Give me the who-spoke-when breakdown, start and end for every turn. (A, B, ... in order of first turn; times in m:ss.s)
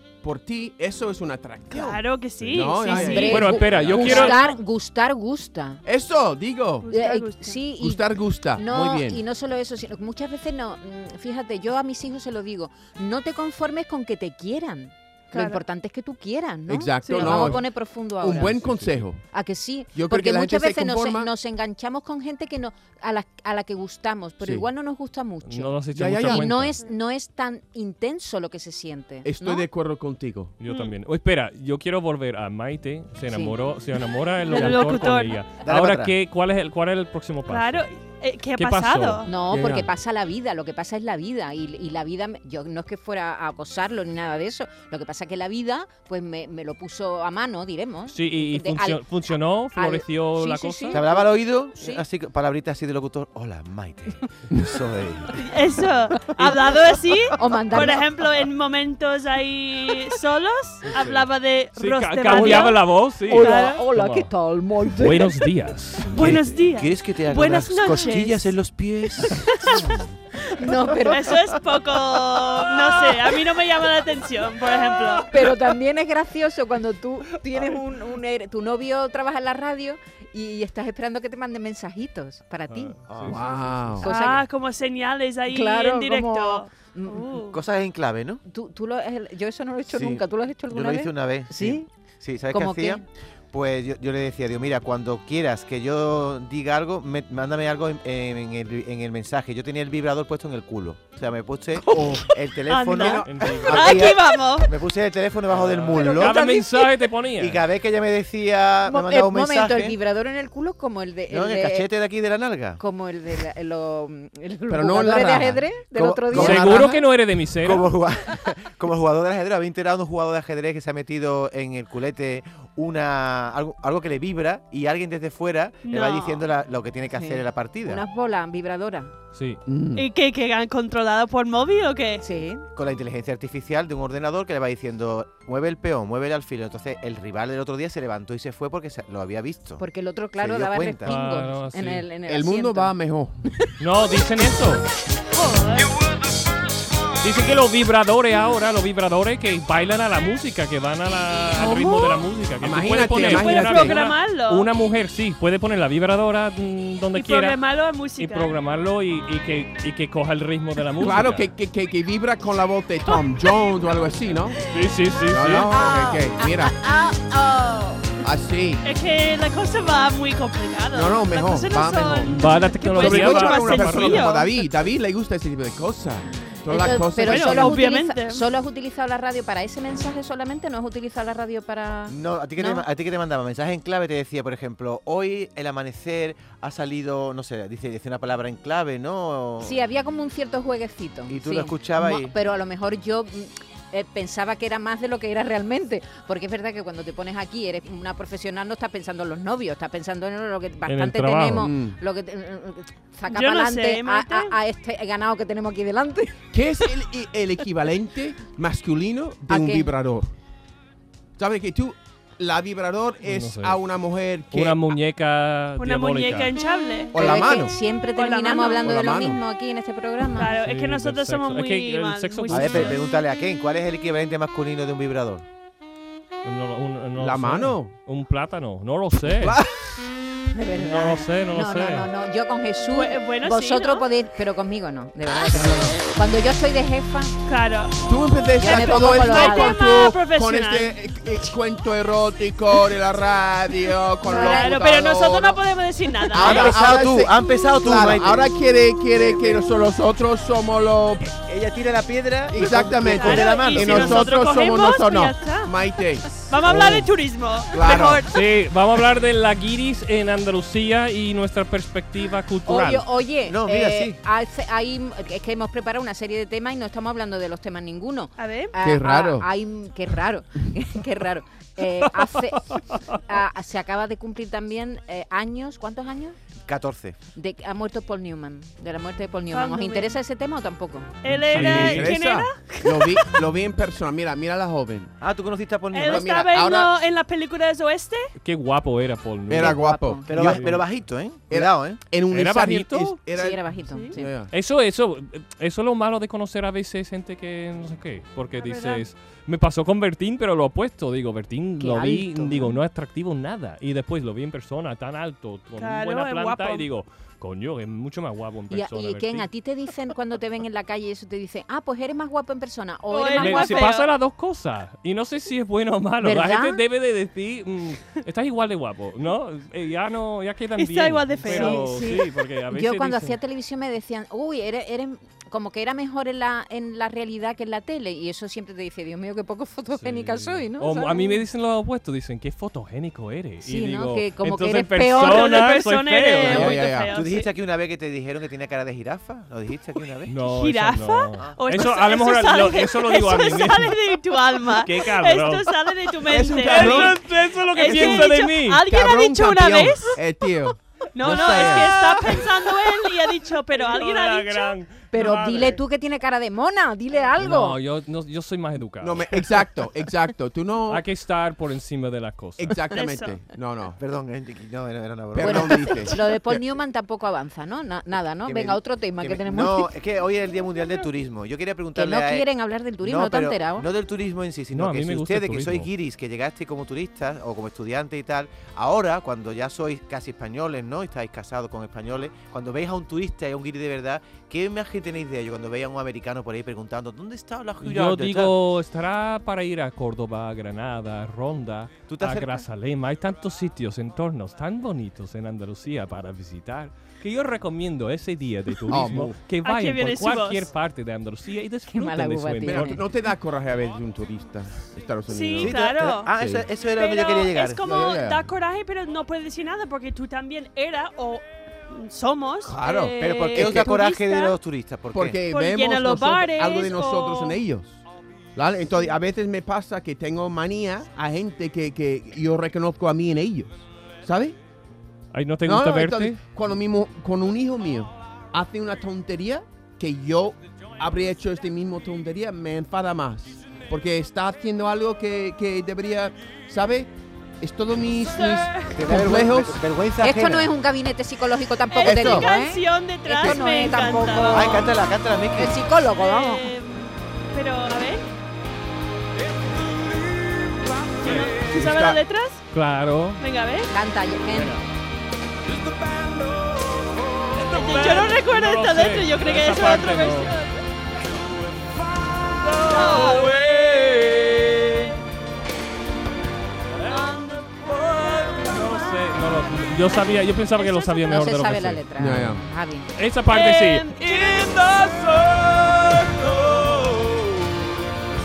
0:00.2-0:04.5 A
0:01.7-0:04.5 B
0:02.8-0:05.8 C
0:03.2-0:04.4 D
0:05.8-0:06.9 A
0:06.8-0:07.6 B
0:06.9-0:18.6 C
0:07.7-0:09.2 A
0:15.3-0:15.6 B
0:16.7-0:19.2 A
0:17.0-0:17.5 B
0:17.1-0:17.6 D
0:18.3-0:19.0 D
0:19.3-0:29.7 C
0:19.9-0:21.3 A
0:24.4-0:24.7 A
0:25.4-0:26.8 D
0:25.9-0:26.7 A
0:29.2-0:30.5 A
0:30.6-0:37.9 D
0:30.6-0:30.9 B
0:33.3-0:33.6 C
0:34.4-0:35.4 B
0:35.6-0:36.1 E
0:37.5-0:39.3 B
0:38.6-0:39.2 D
0:39.2-0:49.0 C
0:39.4-0:39.9 A
0:48.1-0:51.0 D
0:49.7-0:52.0 C
0:50.9-0:55.3 E
0:55.4-1:03.8 B
0:56.2-0:56.5 C
0:57.4-0:58.1 C
1:00.9-1:04.3 D
1:02.3-1:05.5 C
1:04.9-1:06.6 D
1:06.1-1:08.6 B
1:06.2-1:09.4 E
1:09.2-1:09.9 B
1:10.5-1:11.5 C
1:11.0-1:15.4 B
1:15.2-1:23.0 C
1:22.7-1:23.6 D
1:23.0-1:23.9 E
1:23.3-1:24.1 A
1:24.0-1:24.5 C
1:24.0-1:27.6 B
1:25.4-1:27.5 C
1:27.5-1:28.4 E
1:28.4-1:31.9 C
1:29.9-1:46.5 E
1:32.4-1:33.0 C
1:41.9-1:42.3 A
1:42.7-1:44.7 B
1:43.0-1:43.3 A
1:43.1-1:44.0 D
1:45.5-1:47.6 D
1:46.0-1:46.2 C
1:46.2-1:46.6 B
1:47.4-1:50.0 E
1:48.8-1:51.9 C
1:51.3-1:52.8 E
1:52.8-1:57.0 C
1:54.7-1:55.8 A
1:55.9-1:57.0 E
1:56.3-1:57.9 D
1:56.3-1:56.8 A
1:57.6-2:08.0 E
2:05.8-2:06.5 B
2:07.1-2:09.1 C
2:09.3-2:09.6 D
2:09.7-2:10.1 A
2:10.0-2:12.2 B
2:12.2-2:12.7 C
2:12.7-2:19.8 E
2:19.8-2:22.9 C
2:20.4-2:21.2 E
2:21.0-2:22.1 D
2:22.2-2:23.4 A
2:23.8-2:24.8 D
2:25.3-2:25.9 B
2:27.2-2:37.6 D
2:31.6-2:32.2 B
2:32.6-2:34.0 A
2:33.1-2:34.7 B
2:37.1-2:38.5 B
2:38.2-2:41.5 D
2:41.0-2:44.6 A
2:44.7-2:45.8 D
2:45.2-2:48.2 C
2:45.3-2:46.7 A
2:48.2-2:48.8 A
2:48.8-2:54.6 B
2:50.9-2:57.8 A
2:52.3-2:54.3 D
2:56.7-3:02.9 C
2:57.2-2:58.4 B
3:02.1-3:09.8 E
3:09.6-3:26.4 C
3:11.3-3:12.4 E
3:20.8-3:21.7 D
3:21.6-3:22.0 A
3:23.3-3:24.5 B
3:26.5-3:30.3 A
3:29.5-3:29.9 C
3:31.4-3:34.9 A
3:33.2-3:33.8 D
3:34.5-3:36.5 D
3:35.8-3:37.2 B
3:37.1-3:37.8 A
3:37.1-3:40.5 C
3:38.1-3:39.0 B
3:38.8-3:39.4 A
3:40.3-3:43.0 B
3:40.5-3:43.0 D
3:42.5-3:45.4 E
3:46.4-3:49.6 D
3:47.2-3:47.9 A
3:49.3-3:49.7 A
3:50.5-3:57.3 C
3:50.8-3:52.1 D
3:52.8-3:54.1 B
3:55.5-3:55.9 A
3:57.5-3:58.0 B
3:58.0-4:05.6 A
3:58.6-3:59.8 C
3:58.6-4:00.9 B
4:04.2-4:04.8 C
4:04.3-4:06.8 B
4:06.3-4:11.3 A
4:06.4-4:08.5 E
4:09.2-4:09.5 E
4:11.4-4:14.3 E
4:12.5-4:18.3 A
4:13.0-4:15.7 B
4:16.5-4:18.3 B
4:18.3-4:23.1 D
4:22.6-4:36.4 C
4:23.4-4:24.2 E
4:28.4-4:28.7 B
4:28.8-4:29.5 A
4:32.7-4:33.2 D
4:36.6-4:37.2 E
4:37.3-4:41.2 C
4:39.5-4:40.1 B
4:41.2-4:43.4 B
4:41.4-4:45.1 A
4:41.5-4:42.2 D
4:45.2-4:46.5 E
4:45.9-4:48.3 B
4:46.1-4:46.9 A
4:48.4-4:50.8 D
4:49.5-4:50.8 A
4:49.6-4:50.6 C
4:50.3-4:52.0 E
4:51.5-4:54.5 A
4:52.3-4:53.2 D
4:53.3-4:54.3 C
4:53.9-4:54.2 B
4:54.5-5:09.5 D
4:58.5-4:59.0 B
5:01.8-5:02.8 C
5:05.8-5:06.9 B
5:08.7-5:13.9 C
5:13.1-5:14.1 B
5:13.4-5:23.4 D
5:16.2-5:16.8 C
5:20.8-5:22.3 B
5:21.4-5:22.2 C
5:22.7-5:31.4 C
5:30.0-5:36.8 D
5:33.6-5:35.7 C
5:35.1-5:37.5 B
5:36.4-5:37.2 A
5:37.1-5:40.3 E
5:40.3-5:44.0 D
5:40.4-5:50.2 B
5:44.6-5:48.8 D
5:46.3-5:47.2 A
5:47.8-5:48.3 A
5:48.8-5:52.4 A
5:51.1-5:54.7 B
5:51.5-5:52.4 D
5:53.7-5:55.8 D
5:55.1-5:57.8 C
5:57.4-5:59.4 D
5:59.0-6:01.0 A
6:00.9-6:02.8 D
6:02.6-6:04.0 A
6:02.9-6:03.4 B
6:04.0-6:05.9 E
6:05.3-6:06.2 A
6:05.4-6:09.9 C
6:08.4-6:12.5 E
6:11.9-6:13.9 C
6:13.0-6:28.6 E
6:14.7-6:15.9 D
6:27.8-6:43.0 D
6:32.1-6:32.6 E
6:38.9-6:39.4 A
6:39.6-6:40.7 B
6:41.9-6:43.0 C
6:42.6-6:45.8 A
6:45.3-6:54.5 B
6:45.6-6:47.8 E
6:46.3-6:46.6 A
6:47.8-6:48.5 A
6:52.6-6:53.9 A
6:53.2-6:55.4 E
6:55.1-6:58.0 A
6:55.5-6:57.6 B
6:58.6-7:04.6 A
7:05.3-7:06.4 D
7:05.6-7:17.1 A
7:17.6-7:19.8 A
7:18.2-7:19.0 B
7:18.9-7:20.7 E
7:20.2-7:24.8 C
7:21.9-7:25.0 B
7:22.0-7:22.6 A
7:23.3-7:24.2 A
7:24.4-7:25.8 E
7:25.5-7:26.7 C
7:26.2-7:28.2 B
7:31.2-7:32.6 B
7:31.2-7:31.5 D
7:31.6-7:32.2 A
7:32.7-7:33.4 D
7:33.4-7:33.9 B
7:33.9-7:34.8 C
7:34.5-7:34.8 D
7:37.5-7:40.5 D
7:37.7-7:40.8 B
7:42.2-7:45.0 D
7:42.9-7:43.6 B
7:47.0-7:52.0 D
7:47.1-7:51.6 B
7:51.2-7:53.1 C
7:52.2-7:52.6 A
7:53.2-7:57.3 D
7:53.5-7:55.2 B